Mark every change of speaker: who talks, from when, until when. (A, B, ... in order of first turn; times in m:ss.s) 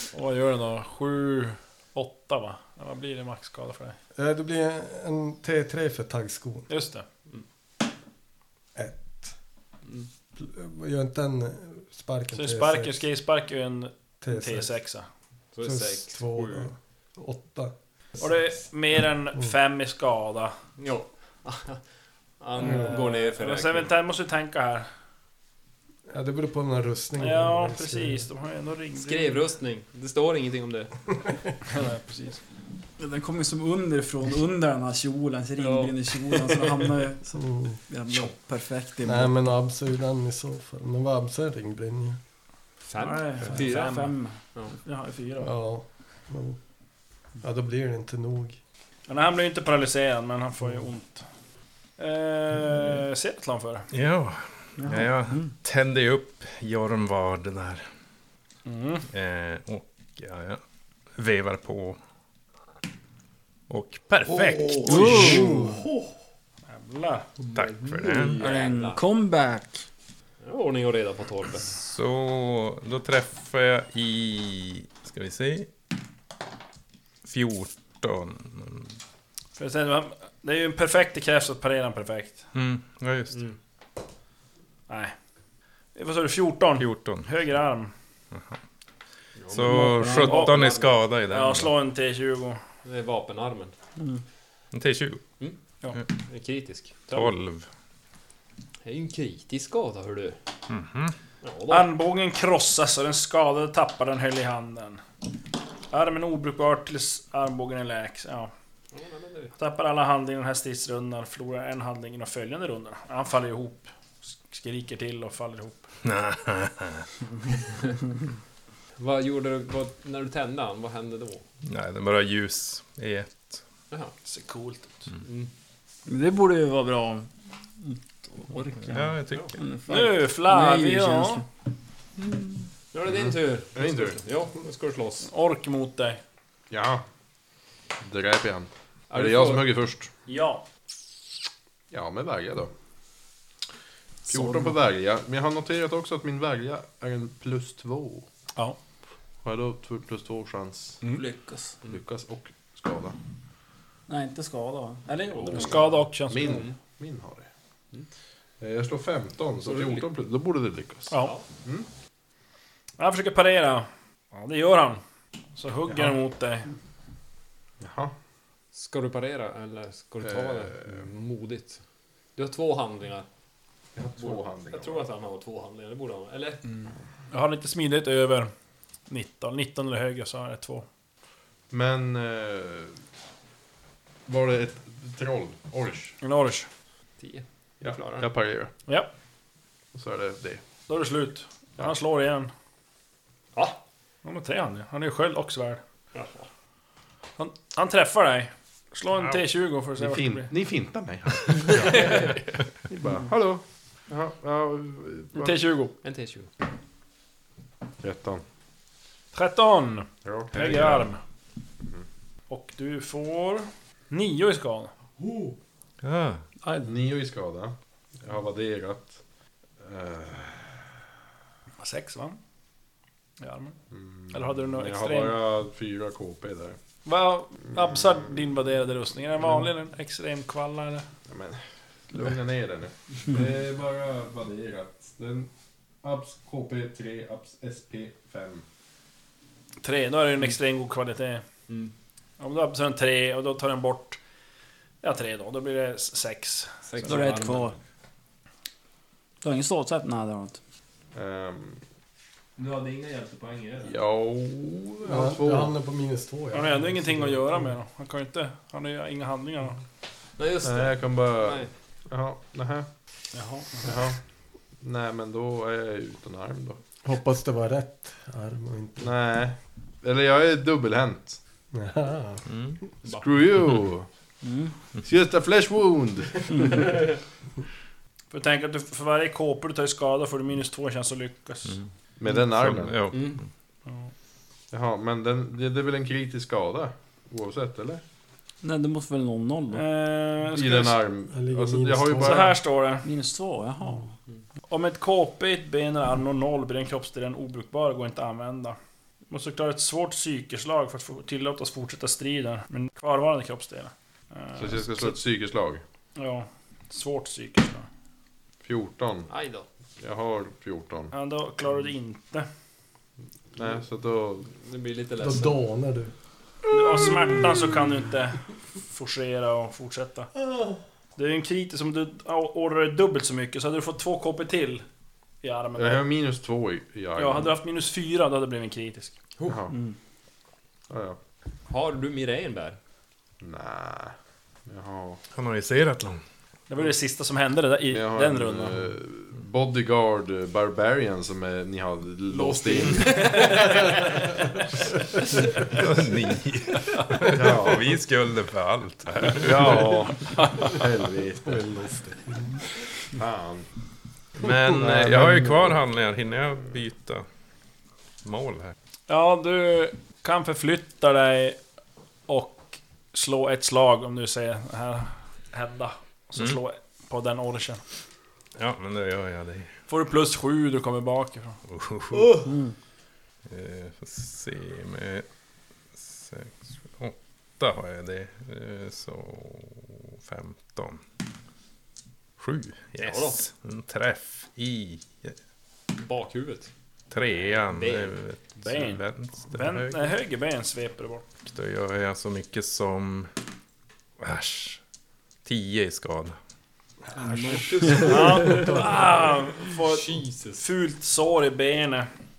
0:00.1-0:04.0 A
0:04.2-0:06.7 B
0:06.7-0:07.0 A
0:08.7-0:09.3 B
0:10.4-0:13.0 B
0:12.3-0:15.0 A
0:14.2-0:14.7 B
0:15.5-0:16.7 C
0:15.6-0:17.7 B
0:18.2-0:20.6 A
0:20.8-0:21.8 C
0:22.4-0:23.9 C
0:22.6-0:24.9 A
0:26.1-0:28.2 B
0:27.2-0:29.4 A
0:28.9-0:31.0 C
0:31.6-0:32.4 A
0:33.0-0:39.3 D
0:35.6-0:36.8 C
0:37.4-0:37.8 B
0:39.0-0:42.2 B
0:42.8-0:44.7 C
0:43.0-0:44.3 D
0:43.3-0:44.2 A
0:44.8-0:45.5 A
0:45.4-0:46.6 B
0:47.4-0:48.6 B
0:49.1-0:51.2 A
0:52.0-0:53.9 A
0:53.9-0:57.8 E
0:54.8-0:55.5 D
0:58.6-0:59.0 A
0:59.1-1:00.6 E
1:01.2-1:02.0 E
1:03.7-1:05.4 E
1:04.7-1:05.8 D
1:04.9-1:05.5 A
1:05.2-1:05.8 B
1:06.6-1:07.3 A
1:07.5-1:08.4 E
1:07.5-1:09.0 C
1:08.0-1:09.8 D
1:10.4-1:11.8 C
1:11.7-1:15.7 E
1:17.2-1:18.9 E
1:19.6-1:22.5 A
1:22.5-1:23.5 E
1:24.9-1:25.1 A
1:25.9-1:27.9 A
1:26.8-1:27.3 E
1:28.3-1:28.6 E
1:29.4-1:30.9 C
1:29.5-1:31.7 E
1:29.7-1:30.3 D
1:29.9-1:32.6 A
1:32.8-1:33.7 C
1:34.7-1:35.2 E
1:36.1-1:37.3 C
1:37.1-1:37.6 E
1:38.8-1:40.4 C
1:40.7-1:41.1 E
1:41.4-1:41.9 C
1:41.7-1:45.0 A
1:45.9-1:48.5 A
1:48.9-1:49.5 C
1:49.6-1:55.8 A
1:56.0-1:57.0 E
1:59.0-2:01.4 C
2:01.6-2:03.6 E
2:04.2-2:05.1 A
2:05.2-2:05.5 C
2:06.0-2:11.4 D
2:08.9-2:09.5 E
2:09.9-2:11.4 A
2:12.2-2:12.7 D
2:12.9-2:15.3 C
2:13.0-2:14.2 F
2:15.2-2:16.2 A
2:16.7-2:17.0 F
2:18.0-2:20.1 F
2:19.1-2:19.6 C
2:20.3-2:20.6 A
2:21.9-2:22.7 F
2:24.3-2:28.3 F
2:24.3-2:24.7 D
2:29.4-2:31.0 F
2:31.1-2:31.7 D
2:31.9-2:33.2 F
2:34.1-2:35.8 D
2:35.3-2:35.9 C
2:35.5-2:36.6 A
2:36.3-2:37.5 F
2:36.4-2:36.7 C
2:38.6-2:41.9 F
2:39.6-2:40.0 C
2:41.1-2:41.4 A
2:43.0-2:45.0 A
2:45.6-2:46.7 A
2:45.9-2:46.1 F
2:47.8-2:48.1 F
2:48.7-2:51.8 C
2:50.2-2:51.1 F
2:52.4-2:53.3 C
2:53.9-2:55.0 F
2:54.2-2:56.6 C
2:57.3-2:58.5 A
2:59.1-3:00.8 A
3:01.7-3:03.0 F
3:04.3-3:06.2 F
3:06.2-3:06.7 A
3:07.2-3:08.3 C
3:07.8-3:08.7 F
3:09.9-3:10.6 F
3:10.9-3:12.5 A
3:13.5-3:13.8 C
3:14.2-3:15.8 A
3:16.1-3:16.5 C
3:17.4-3:20.5 A
3:20.0-3:25.6 F
3:21.7-3:22.2 A
3:21.8-3:22.3 C
3:25.3-3:26.0 A
3:26.0-3:26.5 C
3:28.0-3:28.4 F
3:29.3-3:31.2 A
3:30.2-3:31.1 F
3:32.5-3:34.9 A
3:35.2-3:35.5 F
3:36.0-3:36.4 E
3:36.6-3:39.2 F
3:39.8-3:40.8 F
3:41.8-3:42.4 A
3:43.4-3:43.8 A
3:43.9-3:46.8 F
3:44.3-3:45.4 A
3:47.0-3:51.0 A
3:47.6-3:48.4 F
3:51.3-3:55.5 F
3:56.0-3:58.6 F
3:59.8-4:01.4 A
4:02.4-4:04.2 A
4:05.0-4:07.6 A
4:06.9-4:07.6 C
4:07.0-4:07.8 D
4:09.4-4:10.6 D
4:11.1-4:11.8 F
4:12.6-4:13.9 C
4:13.8-4:15.7 F
4:15.0-4:17.8 B
4:16.5-4:19.8 A
4:20.4-4:21.7 C
4:20.6-4:22.9 F
4:23.3-4:24.0 A
4:23.8-4:24.2 F
4:24.8-4:26.8 F
4:27.0-4:29.1 B
4:29.0-4:31.4 F
4:31.7-4:32.5 B
4:32.5-4:32.8 E
4:33.0-4:34.1 F
4:34.4-4:34.7 D
4:35.0-4:37.0 F
4:38.3-4:41.8 A
4:42.2-4:43.0 F
4:42.5-4:43.4 E
4:43.1-4:43.4 C
4:44.7-4:48.0 F
4:48.6-4:49.8 D
4:49.7-4:51.0 A
4:50.5-4:52.6 F
4:51.3-4:52.4 B
4:52.2-4:53.0 A
4:53.0-4:54.1 D
4:54.7-4:58.8 A
4:59.3-5:05.2 A
5:04.6-5:05.8 F
5:06.2-5:07.9 A
5:08.6-5:09.3 F
5:09.3-5:09.6 C
5:10.0-5:11.1 F
5:11.1-5:12.5 A
5:13.5-5:14.5 F
5:14.5-5:15.6 C
5:15.2-5:16.1 B
5:16.7-5:20.3 A
5:20.5-5:20.8 B
5:21.2-5:24.8 A
5:25.4-5:26.0 A
5:25.8-5:27.6 F
5:27.2-5:29.2 A
5:29.4-5:29.8 F
5:30.9-5:31.2 F
5:31.7-5:32.8 C
5:33.4-5:34.1 F
5:34.7-5:35.2 F
5:35.3-5:36.2 E
5:36.7-5:38.8 A
5:37.9-5:44.0 F
5:42.3-5:44.4 C
5:45.7-5:49.8 E
5:47.3-5:48.0 F
5:49.2-5:51.6 F
5:50.2-5:50.7 A
5:51.4-5:52.6 B
5:53.1-5:53.7 F
5:54.4-5:57.2 E
5:54.4-5:55.8 F
5:58.2-5:58.7 E
5:59.1-6:01.6 A
6:02.3-6:07.8 A
6:08.6-6:09.7 E
6:09.9-6:11.6 A
6:11.7-6:12.4 E
6:12.4-6:12.7 D
6:13.5-6:15.2 E
6:16.0-6:21.0 E
6:22.4-6:25.4 E
6:23.0-6:23.4 C
6:26.0-6:26.7 C
6:27.1-6:30.1 E
6:27.4-6:28.1 C
6:28.6-6:31.2 A
6:31.4-6:33.3 E
6:34.2-6:34.8 E
6:35.4-6:36.4 E
6:37.1-6:39.0 C
6:37.2-6:38.8 B
6:38.0-6:42.1 A
6:39.6-6:40.7 C